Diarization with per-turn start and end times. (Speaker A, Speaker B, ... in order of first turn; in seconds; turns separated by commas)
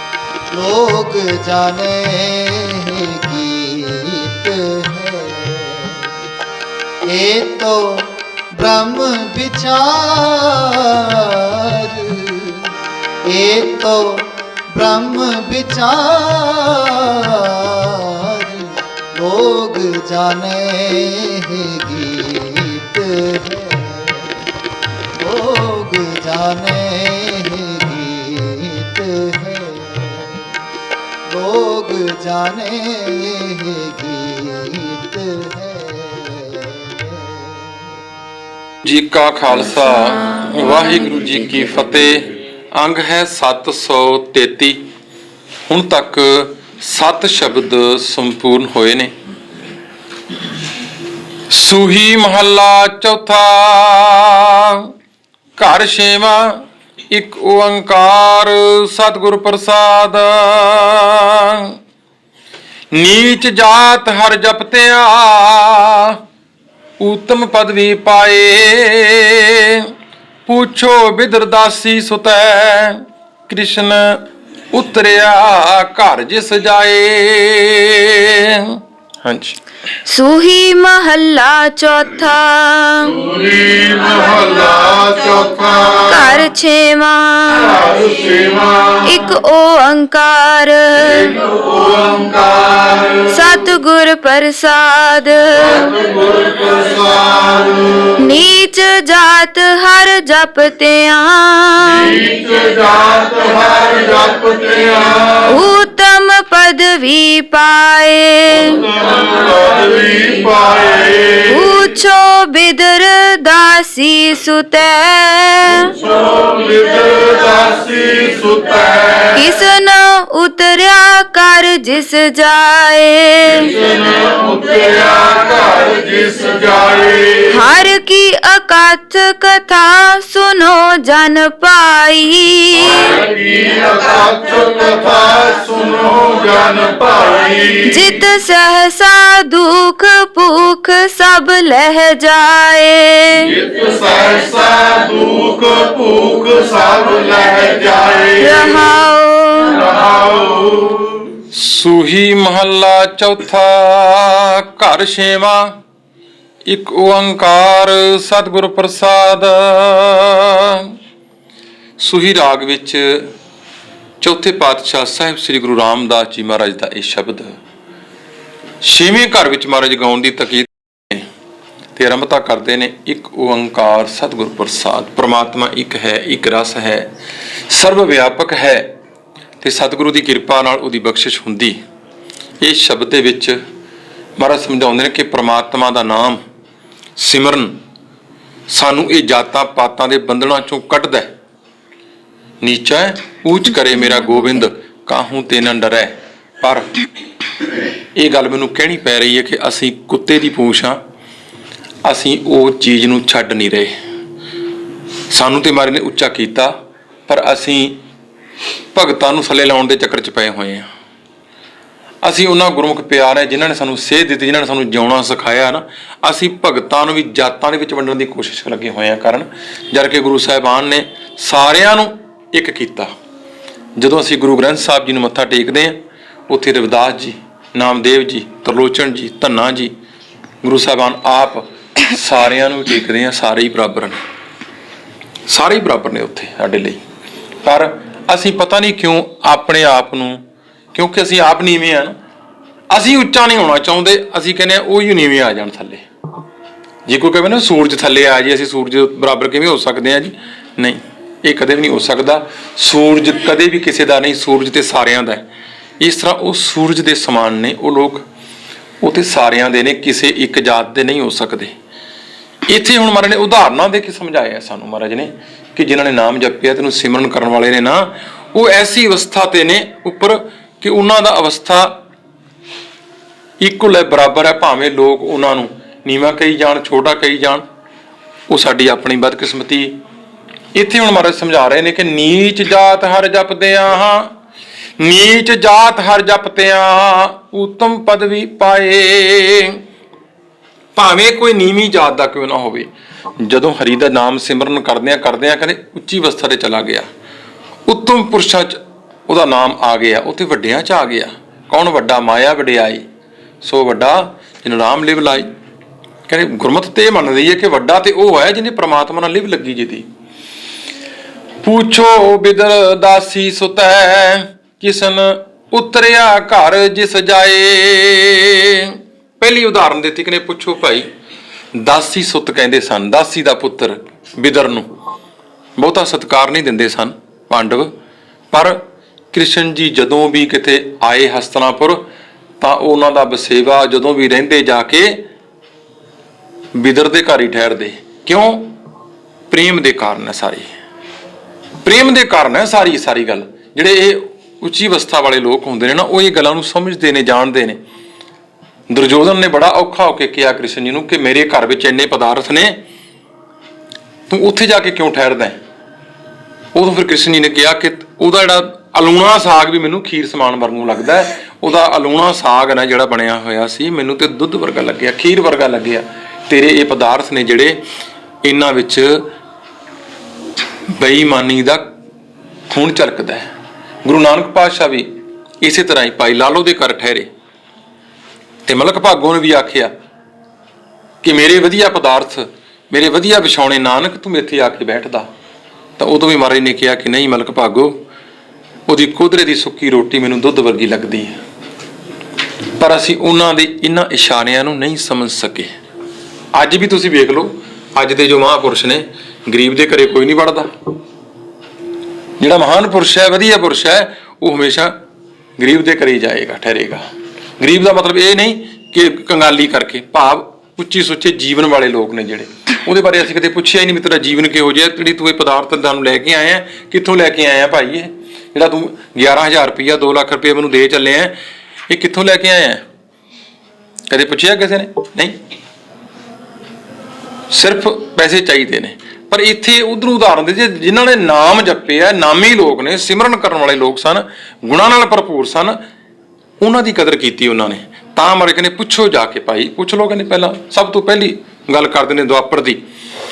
Speaker A: 0.5-6.0, Speaker A: 7.1-12.6, Speaker A: 13.2-24.3, Speaker A: 25.2-30.4, Speaker A: 31.3-37.7, Speaker B: 38.8-44.8, Speaker B: 45.7-49.1, Speaker B: 51.5-54.9, Speaker B: 55.6-61.8, Speaker B: 62.9-66.2, Speaker B: 67.0-69.9, Speaker B: 70.5-79.6, Speaker C: 80.1-83.2, Speaker D: 83.0-86.4, Speaker C: 86.1-87.8, Speaker D: 87.5-89.1, Speaker C: 89.0-91.4, Speaker D: 91.1-93.3, Speaker C: 93.3-95.9, Speaker D: 95.5-98.2, Speaker C: 98.2-102.2, Speaker D: 101.8-105.6, Speaker C: 105.5-108.9, Speaker D: 108.5-111.7, Speaker C: 111.5-115.9, Speaker D: 115.8-119.4, Speaker C: 119.3-123.7, Speaker D: 123.5-127.6, Speaker C: 127.5-133.2, Speaker D: 132.8-138.0, Speaker C: 137.9-143.5, Speaker D: 143.4-148.8, Speaker C: 148.4-149.8, Speaker D: 149.7-151.3, Speaker B: 151.5-155.8, Speaker B: 156.7-160.9, Speaker B: 162.0-163.3, Speaker B: 164.2-167.6, Speaker B: 168.8-171.3, Speaker B: 172.0-177.1, Speaker B: 177.7-178.9, Speaker B: 179.6-181.8, Speaker B: 182.6-183.6, Speaker B: 184.4-186.4, Speaker B: 187.2-187.8, Speaker B: 188.7-191.3, Speaker B: 192.6-196.9, Speaker B: 198.2-201.0, Speaker B: 202.0-203.9, Speaker B: 205.3-206.7, Speaker B: 207.3-208.0, Speaker B: 208.9-210.9, Speaker B: 212.2-223.1, Speaker B: 224.0-229.9, Speaker B: 230.6-234.2, Speaker B: 235.5-237.0, Speaker B: 237.6-240.4, Speaker B: 240.9-242.2, Speaker B: 242.9-246.1, Speaker B: 247.1-255.5, Speaker B: 256.0-258.2, Speaker B: 259.0-261.7, Speaker B: 262.7-272.0, Speaker B: 273.6-277.6, Speaker B: 278.5-280.0, Speaker B: 280.8-284.3, Speaker B: 285.0-289.8, Speaker B: 290.9-297.1, Speaker B: 297.9-303.1, Speaker B: 303.6-305.5, Speaker B: 306.3-310.1, Speaker B: 311.6-321.1, Speaker B: 321.7-324.9, Speaker B: 325.8-327.9, Speaker B: 328.5-328.8, Speaker B: 329.3-332.1, Speaker B: 332.6-335.2, Speaker B: 336.7-338.7, Speaker B: 339.5-340.7, Speaker B: 341.8-347.8, Speaker B: 348.9-352.8, Speaker B: 354.3-355.6, Speaker B: 356.8-367.8, Speaker B: 368.4-369.3, Speaker B: 370.9-371.9, Speaker B: 372.7-373.4, Speaker B: 374.0-375.1, Speaker B: 375.6-377.3, Speaker B: 378.6-379.9, Speaker B: 381.2-385.3, Speaker B: 386.0-388.0, Speaker B: 388.9-391.4, Speaker B: 392.8-395.7, Speaker B: 396.5-400.7, Speaker B: 402.4-404.9, Speaker B: 405.6-407.0, Speaker B: 407.6-421.4, Speaker B: 421.9-422.8, Speaker B: 424.1-425.4, Speaker B: 427.5-435.8, Speaker B: 436.6-442.8